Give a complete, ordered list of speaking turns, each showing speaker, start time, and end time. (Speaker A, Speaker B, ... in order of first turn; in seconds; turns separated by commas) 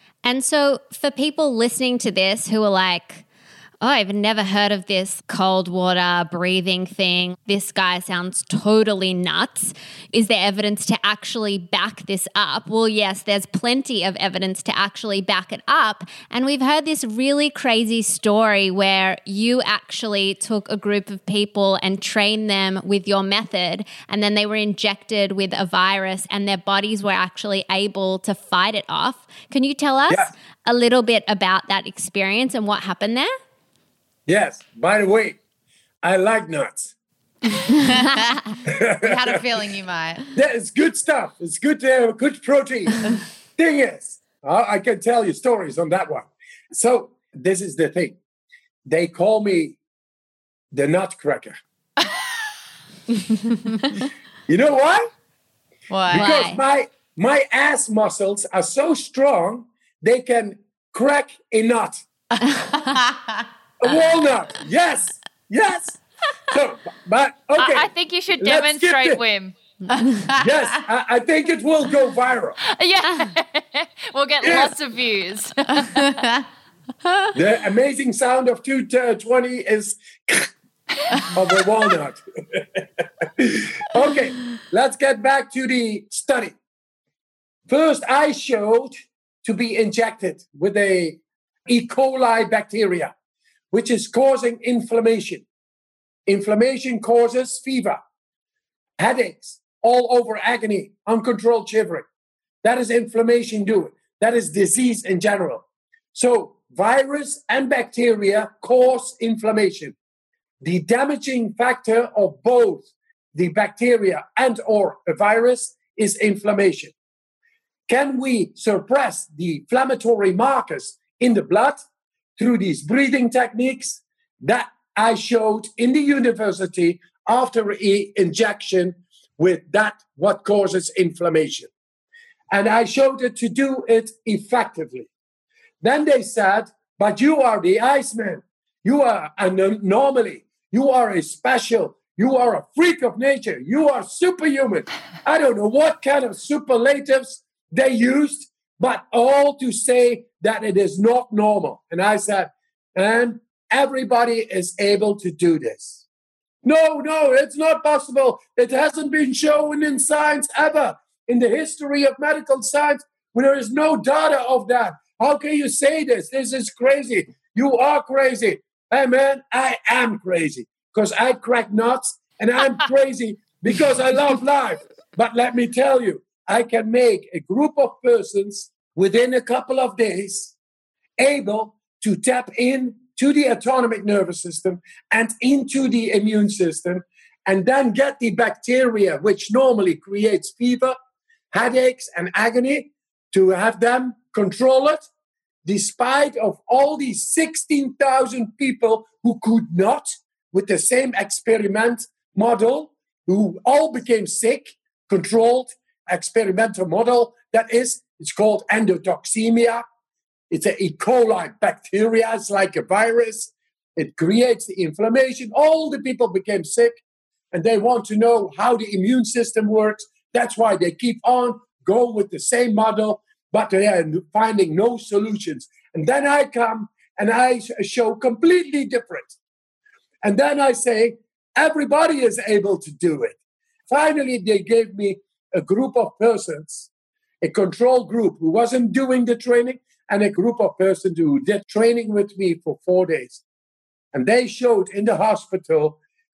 Speaker A: 0.2-3.2, Speaker A: 3.8-33.3, Speaker B: 34.3-35.4, Speaker B: 36.0-36.9, Speaker B: 38.7-39.3, Speaker C: 39.0-40.2, Speaker B: 40.3-48.2, Speaker B: 48.9-49.8, Speaker B: 50.7-51.6, Speaker B: 54.5-55.1, Speaker C: 55.9-56.3, Speaker B: 56.1-62.0, Speaker A: 56.1-56.6, Speaker C: 62.9-63.4, Speaker B: 63.8-67.9, Speaker D: 67.6-69.5, Speaker B: 68.4-69.2, Speaker C: 70.0-70.3, Speaker B: 70.4-72.6, Speaker D: 72.6-76.1, Speaker B: 74.4-74.7, Speaker B: 77.3-80.5, Speaker B: 81.3-86.5, Speaker B: 87.7-93.1, Speaker B: 93.7-95.4, Speaker B: 96.3-98.0, Speaker B: 99.0-102.0, Speaker B: 102.6-105.6, Speaker B: 106.1-110.0, Speaker B: 110.6-116.9, Speaker B: 117.9-121.8, Speaker B: 122.4-131.7, Speaker B: 132.5-135.1, Speaker B: 135.8-156.0, Speaker B: 156.6-180.5, Speaker B: 181.2-190.9, Speaker B: 191.5-195.0, Speaker B: 195.6-209.8, Speaker B: 210.5-217.0, Speaker B: 217.5-229.3, Speaker B: 230.2-233.4, Speaker B: 233.9-236.9, Speaker B: 237.4-243.4, Speaker B: 244.1-246.0